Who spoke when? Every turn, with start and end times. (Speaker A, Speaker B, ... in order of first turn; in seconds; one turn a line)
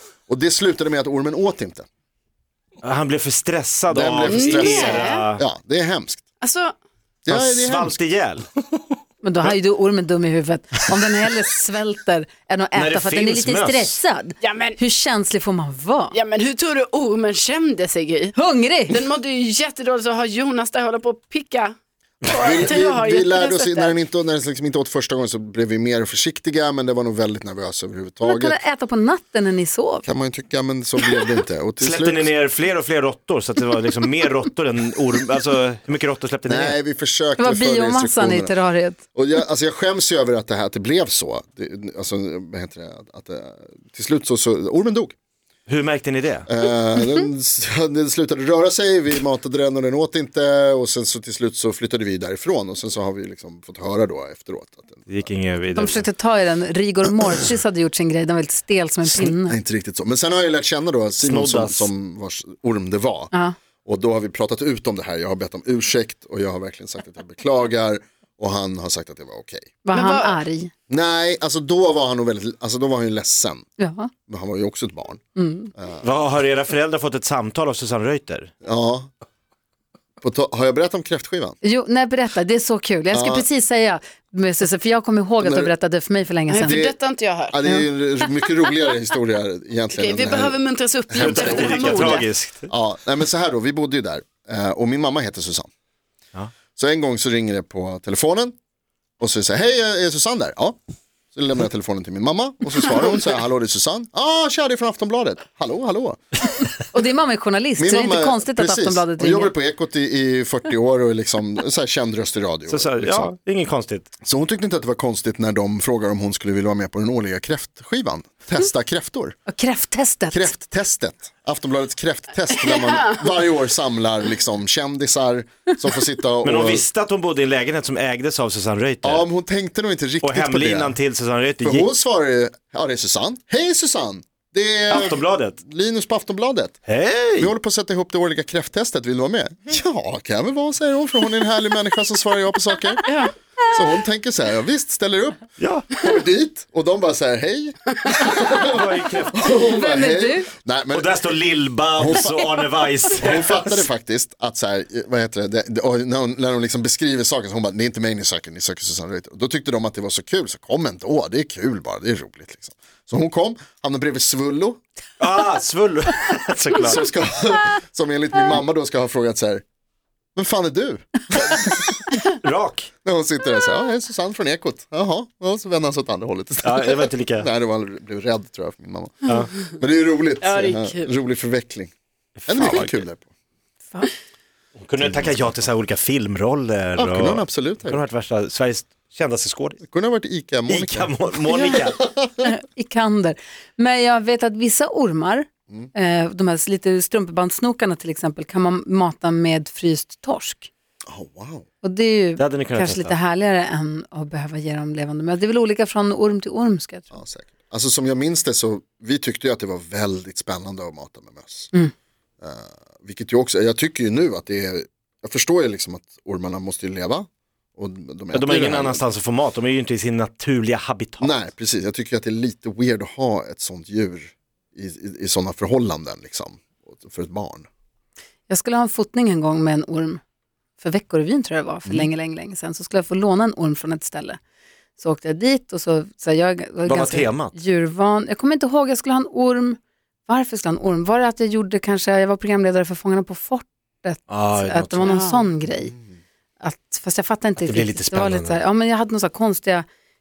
Speaker A: 0.3-1.8
Speaker B: 2.8-5.4
Speaker A: 3.9-6.2
Speaker C: 4.3-5.2
Speaker C: 6.4-6.7
Speaker A: 7.2-8.0
Speaker B: 7.3-8.4
Speaker D: 9.2-16.1
Speaker B: 12.7-14.0
Speaker C: 14.4-14.8
Speaker C: 16.1-18.3
Speaker D: 18.3-18.9
Speaker C: 18.9-23.9
Speaker A: 22.4-28.6
Speaker D: 28.2-30.1
Speaker A: 30.0-32.3
Speaker B: 31.8-36.8
Speaker A: 36.4-38.5
Speaker D: 37.4-39.0
Speaker A: 39.1-45.1
Speaker B: 45.7-46.5
Speaker A: 46.5-55.1
Speaker B: 55.1-56.1
Speaker D: 55.8-59.5
Speaker A: 59.0-63.3
Speaker B: 61.2-61.9
Speaker A: 63.8-69.7
Speaker D: 69.8-70.7
Speaker C: 69.9-70.4
Speaker A: 70.9-73.6
Speaker D: 73.8-74.1
Speaker A: 74.3-75.2
Speaker D: 75.3-75.7
Speaker A: 75.8-76.0
Speaker B: 76.0-78.5
Speaker A: 78.6-79.1
Speaker A: 80.2-81.6
Speaker D: 81.6-86.8
Speaker A: 83.1-83.5
Speaker A: 85.4-85.7
Speaker C: 86.5-87.6
Speaker A: 86.6-95.7
Speaker C: 89.9-92.3
Speaker B: 91.2-92.7
Speaker A: 96.8-98.5
Speaker A: 99.2-100.8
Speaker A: 101.3-106.2
Speaker D: 106.9-109.5
Speaker A: 107.8-113.3
Speaker B: 112.7-114.1
Speaker A: 114.2-119.4
Speaker D: 119.5-120.5
Speaker A: 120.3-126.8
Speaker C: 122.5-123.2
Speaker B: 126.4-129.3
Speaker A: 129.0-131.0
Speaker B: 130.2-131.9
Speaker A: 131.6-136.8
Speaker B: 134.9-135.6
Speaker B: 136.9-137.5
Speaker A: 137.4-143.1
Speaker C: 143.1-143.3
Speaker A: 143.7-151.2
Speaker B: 145.6-146.1
Speaker B: 148.6-149.4
Speaker D: 149.4-150.5
Speaker B: 150.9-153.9
Speaker A: 152.0-152.5
Speaker A: 153.1-164.8
Speaker B: 165.2-167.0
Speaker A: 166.8-169.6
Speaker A: 170.3-172.0
Speaker B: 172.3-172.9
Speaker A: 173.0-181.9
Speaker B: 176.6-177.5
Speaker B: 179.3-179.5
Speaker C: 180.4-181.1
Speaker B: 182.4-183.0
Speaker A: 182.5-183.2
Speaker B: 184.8-189.8
Speaker A: 185.0-185.5
Speaker A: 187.0-188.0
Speaker A: 189.8-192.5
Speaker B: 190.7-192.0
Speaker D: 192.4-200.7
Speaker A: 201.1-201.7
Speaker D: 201.8-207.1
Speaker B: 202.4-203.1
Speaker A: 207.1-211.7
Speaker A: 212.4-219.0
Speaker B: 218.3-221.4
Speaker A: 221.2-227.7
Speaker D: 228.5-230.2
Speaker D: 230.8-234.4
Speaker D: 235.0-245.9
Speaker B: 236.8-237.5
Speaker B: 244.3-245.1
Speaker C: 245.1-245.4
Speaker A: 245.7-246.0
Speaker D: 246.6-249.8
Speaker B: 247.6-248.6